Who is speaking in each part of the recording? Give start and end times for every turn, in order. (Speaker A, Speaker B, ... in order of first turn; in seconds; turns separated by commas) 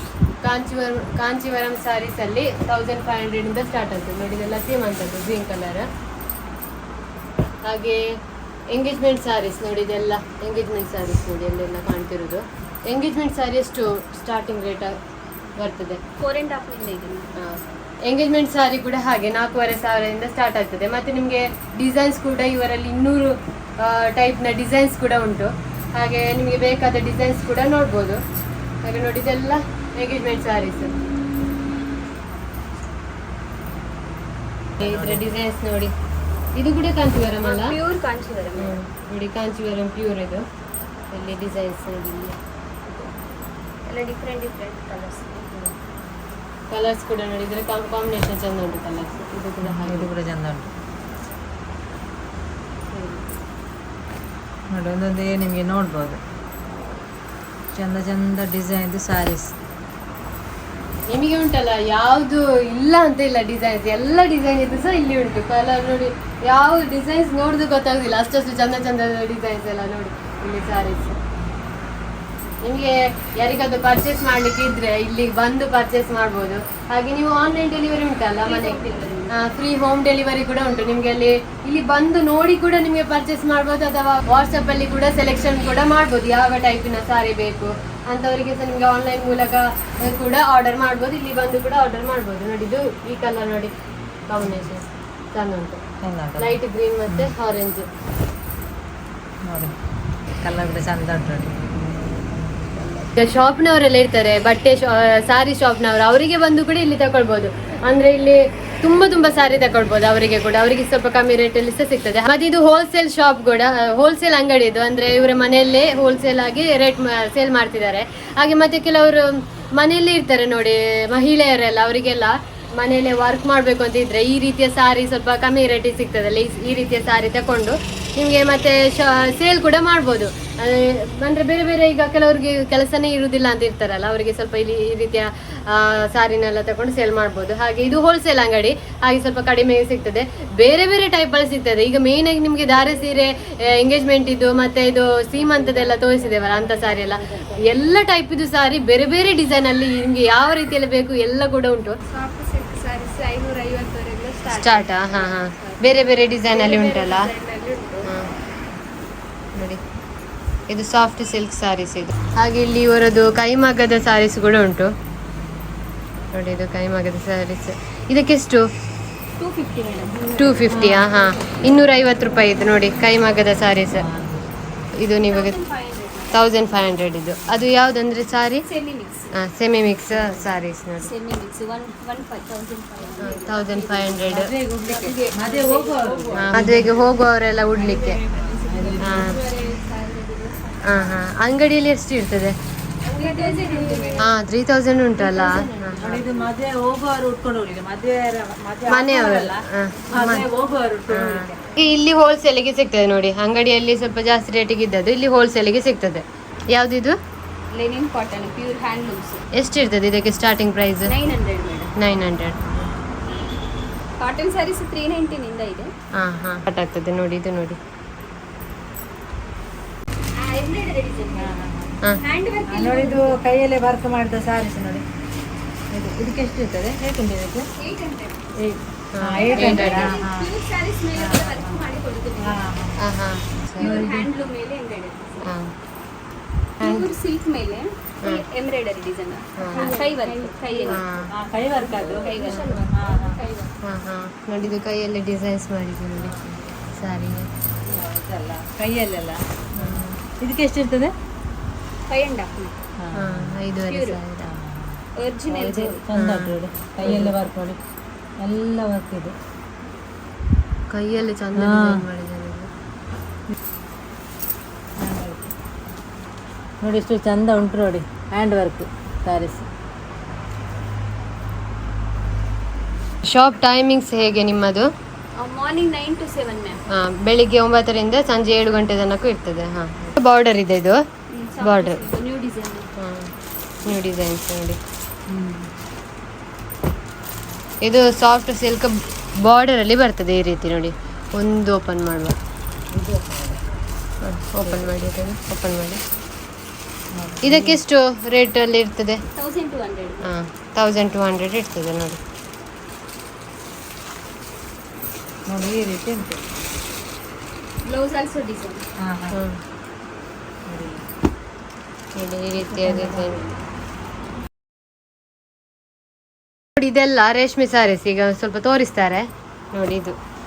Speaker A: 0.4-5.9, Speaker A: 7.7-8.0, Speaker A: 8.7-15.0, Speaker A: 15.6-16.0, Speaker B: 16.2-17.3, Speaker A: 17.4-28.2, Speaker A: 28.8-30.9, Speaker C: 34.8-35.3, Speaker A: 34.8-35.9, Speaker A: 36.5-37.8, Speaker B: 37.4-38.8, Speaker A: 38.6-40.4, Speaker A: 41.1-42.4, Speaker B: 43.9-45.7, Speaker A: 46.7-50.1, Speaker C: 49.6-50.7, Speaker A: 52.9-53.3, Speaker C: 54.7-56.2, Speaker C: 57.7-59.5, Speaker A: 61.1-71.2, Speaker A: 72.6-78.8, Speaker B: 78.4-79.3, Speaker A: 79.3-93.7, Speaker A: 94.3-95.8, Speaker C: 96.0-97.3, Speaker A: 96.4-97.9, Speaker C: 99.5-99.7, Speaker C: 100.4-101.5, Speaker A: 103.2-152.0, Speaker B: 146.7-147.5, Speaker B: 152.1-158.1, Speaker A: 154.5-157.3, Speaker A: 159.6-159.8, Speaker A: 160.7-164.9, Speaker A: 166.3-168.6, Speaker B: 169.4-171.9, Speaker A: 170.4-174.1, Speaker C: 170.7-171.1, Speaker C: 173.9-174.5, Speaker A: 175.0-175.6, Speaker B: 175.3-176.7, Speaker A: 176.3-178.7, Speaker B: 178.7-179.3, Speaker A: 179.3-181.1, Speaker B: 181.0-186.9, Speaker A: 183.2-184.5, Speaker C: 184.3-186.9, Speaker A: 186.3-188.2, Speaker B: 187.8-191.2, Speaker C: 188.4-189.4, Speaker A: 189.0-189.4, Speaker A: 190.8-192.6, Speaker B: 193.1-194.2, Speaker C: 193.1-194.2, Speaker A: 194.2-196.1, Speaker B: 195.2-196.4, Speaker C: 195.5-199.6, Speaker A: 198.9-200.5, Speaker C: 200.1-201.6, Speaker A: 201.1-207.2, Speaker B: 207.7-209.4, Speaker A: 209.6-211.1, Speaker B: 211.1-211.9, Speaker A: 212.0-212.9, Speaker B: 214.2-215.9, Speaker A: 216.2-217.8, Speaker B: 220.4-221.6, Speaker C: 221.4-222.0, Speaker B: 222.1-223.4, Speaker C: 222.7-225.1, Speaker C: 225.9-227.7, Speaker B: 227.8-228.4, Speaker C: 228.6-230.5, Speaker A: 229.1-230.2, Speaker B: 229.4-232.6, Speaker C: 231.1-231.8, Speaker C: 232.4-233.0, Speaker A: 233.0-234.1, Speaker C: 233.8-234.3, Speaker B: 233.8-235.5, Speaker A: 235.4-235.7, Speaker B: 236.8-241.0, Speaker A: 236.8-237.1, Speaker A: 239.6-239.9, Speaker C: 239.7-240.5, Speaker A: 240.9-241.3, Speaker C: 241.3-243.4, Speaker B: 241.9-243.7, Speaker A: 243.8-246.4, Speaker A: 247.0-247.5, Speaker C: 247.9-251.1, Speaker A: 249.8-250.2, Speaker B: 252.1-252.7, Speaker C: 253.0-253.7, Speaker A: 253.1-254.5, Speaker B: 253.9-254.2, Speaker C: 254.4-257.8, Speaker B: 255.2-256.1, Speaker A: 256.1-257.4, Speaker C: 258.4-259.4, Speaker A: 260.9-262.7, Speaker C: 261.6-262.0, Speaker C: 265.0-265.5, Speaker C: 266.8-269.6, Speaker A: 273.3-274.9, Speaker B: 275.4-276.8, Speaker A: 276.9-281.0, Speaker B: 281.3-282.9, Speaker A: 281.6-282.1, Speaker A: 283.0-283.3, Speaker A: 283.8-284.8, Speaker C: 285.3-285.7, Speaker A: 287.8-292.4, Speaker C: 292.9-293.6, Speaker A: 294.2-296.0, Speaker C: 294.6-294.9, Speaker C: 297.1-297.8, Speaker A: 297.4-299.2, Speaker B: 299.4-300.3, Speaker A: 300.2-302.2, Speaker C: 305.5-306.4, Speaker B: 307.8-308.8, Speaker C: 309.0-309.4, Speaker A: 309.3-309.6, Speaker C: 310.7-311.0, Speaker A: 312.2-313.4, Speaker B: 312.7-313.5, Speaker A: 316.8-320.2